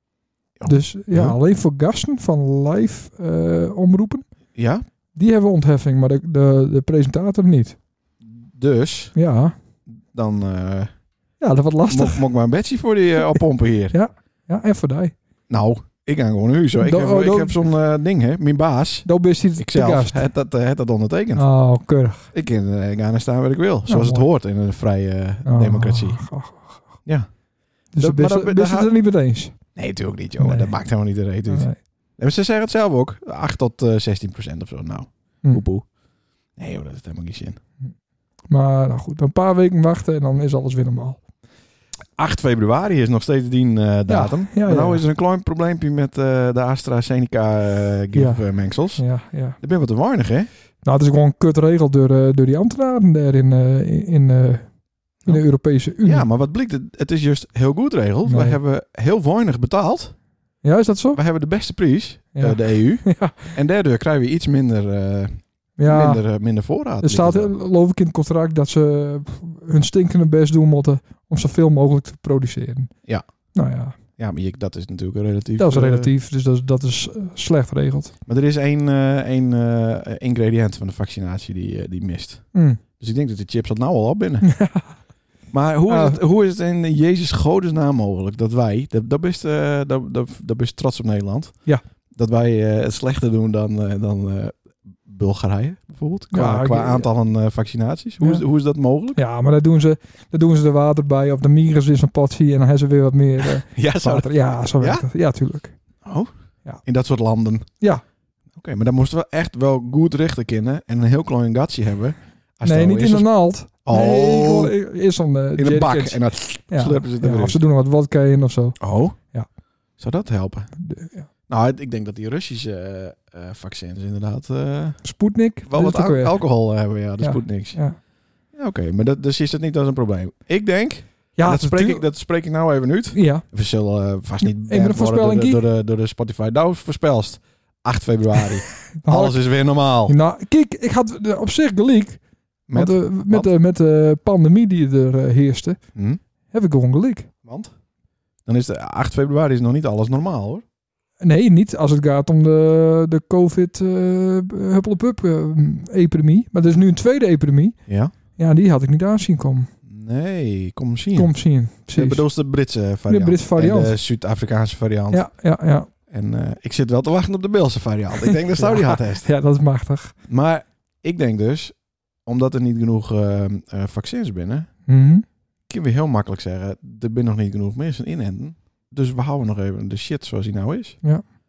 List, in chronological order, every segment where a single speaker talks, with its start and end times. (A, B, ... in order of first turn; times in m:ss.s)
0:00.6-0:01.4 A
0:00.6-0:04.3 B
0:04.5-0:04.8 A
0:05.2-0:07.8 B
0:08.2-0:09.1 A
0:09.1-0:09.5 B
0:10.1-0:10.9 A
0:11.4-0:12.2 B
0:11.9-0:13.9 A
0:13.9-0:15.1 B
0:15.5-0:21.4 A
0:16.8-0:17.6 B
0:19.0-0:20.2 B
0:21.4-0:22.3 B
0:22.3-0:26.2 A
0:23.9-0:24.3 B
0:25.4-0:26.8 B
0:27.9-0:29.6 B
0:28.0-0:28.9 A
0:29.7-0:35.9 A
0:30.4-0:30.8 B
0:31.5-0:31.8 B
0:36.6-0:37.6 A
0:38.5-0:41.2 B
0:42.2-0:49.0 A
0:44.1-0:45.0 B
0:48.1-0:48.4 B
0:49.0-0:49.6 B
0:49.6-0:50.5 A
0:50.8-0:54.7 B
0:55.2-0:56.2 B
0:56.0-1:00.1 A
0:58.2-0:58.6 B
1:00.6-1:01.2 B
1:01.1-1:07.5 A
1:02.4-1:03.6 B
1:05.8-1:06.2 B
1:07.0-1:12.9 B
1:13.5-1:14.0 B
1:14.2-1:16.1 A
1:15.6-1:18.1 B
1:18.2-1:24.5 A
1:22.5-1:22.8 B
1:24.4-1:24.9 B
1:25.5-1:39.2 A
1:25.9-1:26.2 B
1:36.3-1:37.1 B
1:39.2-1:45.7 B
1:43.4-1:45.0 A
1:46.0-1:46.3 A
1:46.8-1:47.7 A
1:48.5-1:54.7 A
1:52.6-1:58.8 B
1:55.6-1:57.6 A
1:58.8-1:59.2 A
2:00.0-2:00.7 A
2:00.8-2:01.3 B
2:01.5-2:05.0 A
2:05.0-2:06.4 B
2:05.7-2:07.8 A
2:07.2-2:08.0 B
2:08.5-2:20.1 A
2:11.4-2:12.0 B
2:13.1-2:13.4 B
2:14.6-2:15.6 B
2:19.0-2:19.4 B
2:20.0-2:22.2 B
2:22.7-2:23.5 A
2:22.7-2:25.8 B
2:26.5-2:27.3 B
2:27.4-2:27.7 A
2:28.4-2:30.6 A
2:31.2-2:37.8 B
2:37.9-2:38.1 A
2:38.4-2:39.7 B
2:39.8-2:41.3 A
2:41.1-2:42.2 B
2:41.9-2:45.2 A
2:43.1-2:44.0 B
2:45.1-2:45.9 B
2:46.1-2:49.3 A
2:48.2-2:50.1 B
2:50.3-2:54.7 A
2:54.9-2:55.2 B
2:55.7-3:01.0 A